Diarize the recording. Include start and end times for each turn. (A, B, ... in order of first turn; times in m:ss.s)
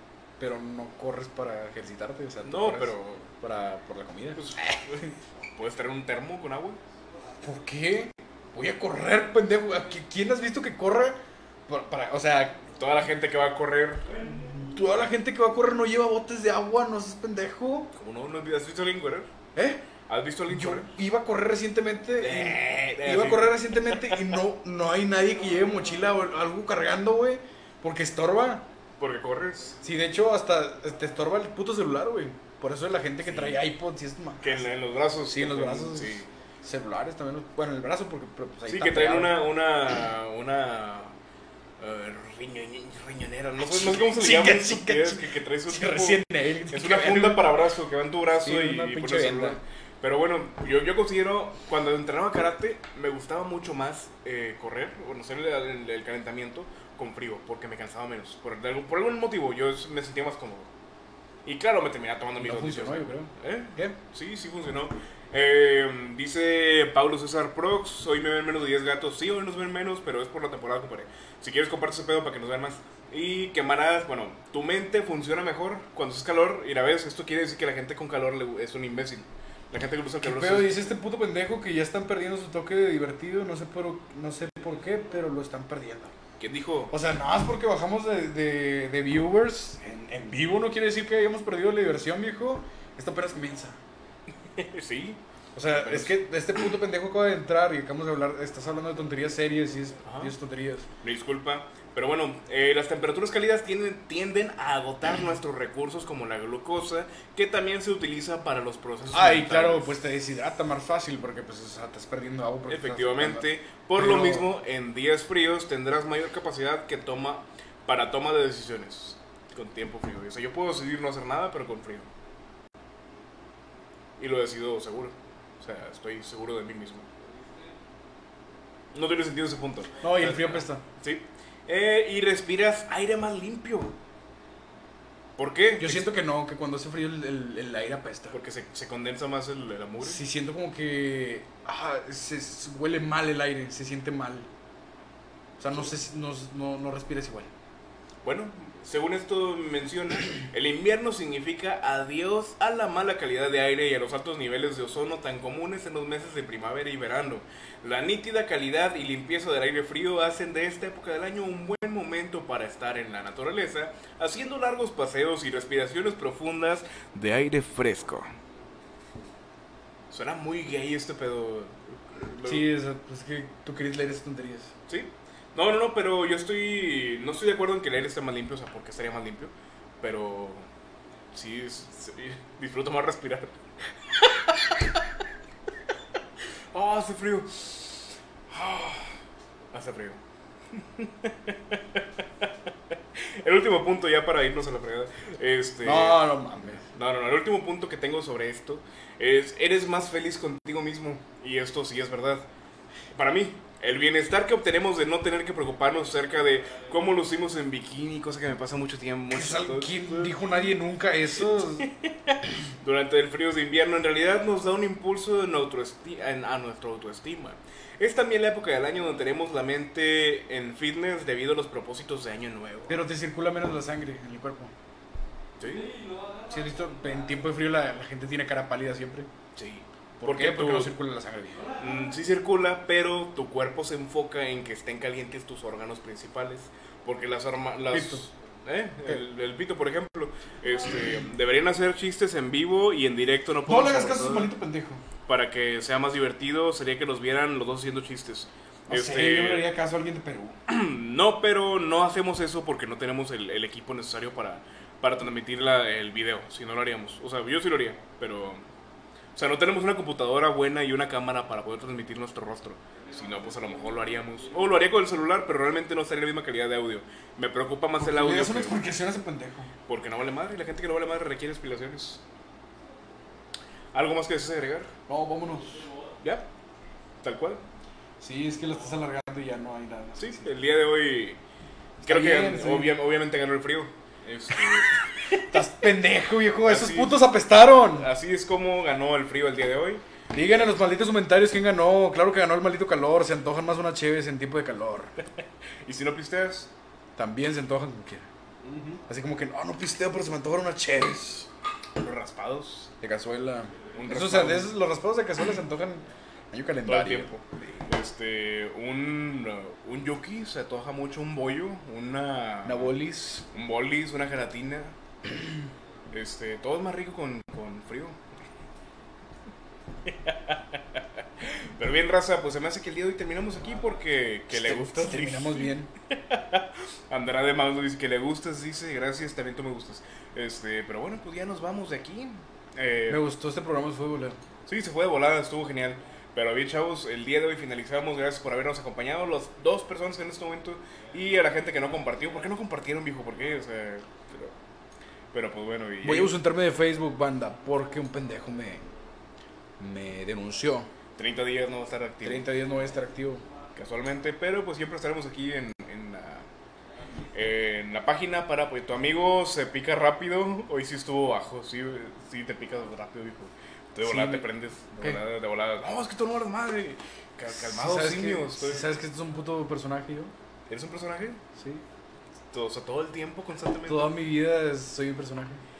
0:00.4-0:05.0 A
0:02.4-0:03.3 B
0:04.4-0:06.8 B
0:07.4-0:12.7 A
0:12.8-0:14.1 B
0:14.2-0:17.9 A
0:17.9-0:19.3 B
0:19.6-0:19.8 A
0:20.1-0:20.9 B
0:20.5-0:28.7 A
0:22.2-0:23.6 B
0:29.0-0:29.8 B
0:29.8-0:34.7 A
0:33.2-0:33.6 B
0:34.4-0:36.3 B
0:35.3-0:39.4 A
0:38.7-0:41.1 B
0:41.8-1:00.7 B
0:43.6-0:47.6 A
0:48.4-0:49.6 A
1:01.4-1:20.9 B
1:02.4-1:04.0 A
1:20.2-1:26.1 A
1:26.4-1:26.9 B
1:26.9-1:33.8 A
1:34.5-1:35.2 B
1:35.6-1:40.9 A
1:35.7-1:36.2 B
1:40.0-1:40.3 B
1:41.0-1:49.9 B
1:49.1-1:54.5 A
1:52.7-2:02.1 B
2:04.2-2:07.1 B
2:08.9-2:14.0 B
2:10.0-2:10.8 A
2:15.4-2:16.1 B
2:15.8-2:18.4 A
2:18.3-2:20.2 B
2:20.0-2:24.5 A
2:25.6-2:27.5 A
2:28.2-2:48.3 B
2:50.1-2:52.7 B
2:52.4-2:54.7 A
2:54.9-3:00.7 B
3:01.3-3:03.6 B
3:04.1-3:04.9 B
3:06.7-3:09.1 B
3:09.7-3:10.2 B
3:10.7-3:16.3 B
3:15.8-3:16.8 A
3:16.9-3:22.5 B
3:23.1-3:30.7 B
3:29.3-3:31.9 A
3:31.8-3:43.0 B
3:42.9-3:44.7 A
3:45.6-3:45.9 B
3:46.5-3:49.3 A
3:49.6-3:51.0 B
3:50.2-3:51.7 A
3:51.8-4:04.5 B
3:57.9-3:58.3 A
4:03.7-4:05.0 A
4:05.3-4:09.6 B
4:08.9-4:10.6 A
4:10.7-4:18.6 B
4:19.4-4:28.8 B
4:28.0-4:29.7 A
4:29.9-4:32.2 B
4:33.9-4:34.9 B
4:35.1-4:35.9 A
4:37.2-4:37.6 B
4:38.2-4:40.5 A
4:40.2-4:41.4 B
4:42.0-4:43.0 A
4:42.0-4:45.0 B
4:45.5-4:48.1 A
4:46.6-4:47.3 B
4:47.9-4:50.0 B
4:50.3-4:55.1 A
4:55.8-4:56.7 B
4:57.2-4:58.3 A
4:58.6-4:59.0 B
4:59.1-5:01.5 A
5:02.0-5:02.9 B
5:03.0-5:07.3 A
5:03.9-5:04.7 B
5:06.9-5:12.9 B
5:12.6-5:13.5 A
5:13.5-5:15.0 B
5:16.1-5:18.2 B
5:20.0-5:33.2 B
5:24.5-5:25.9 A
5:33.1-5:34.4 A
5:34.7-5:44.5 B
5:45.3-5:46.4 B
5:46.0-5:48.9 A
5:49.8-5:50.9 A
5:51.2-5:52.5 B
5:52.2-5:53.4 A
5:53.8-5:56.5 B
5:57.3-6:09.0 B
6:04.0-6:04.5 A
6:07.5-6:10.3 A
6:10.7-6:11.4 B
6:11.6-6:11.8 A
6:12.5-6:14.1 B
6:13.9-6:15.6 A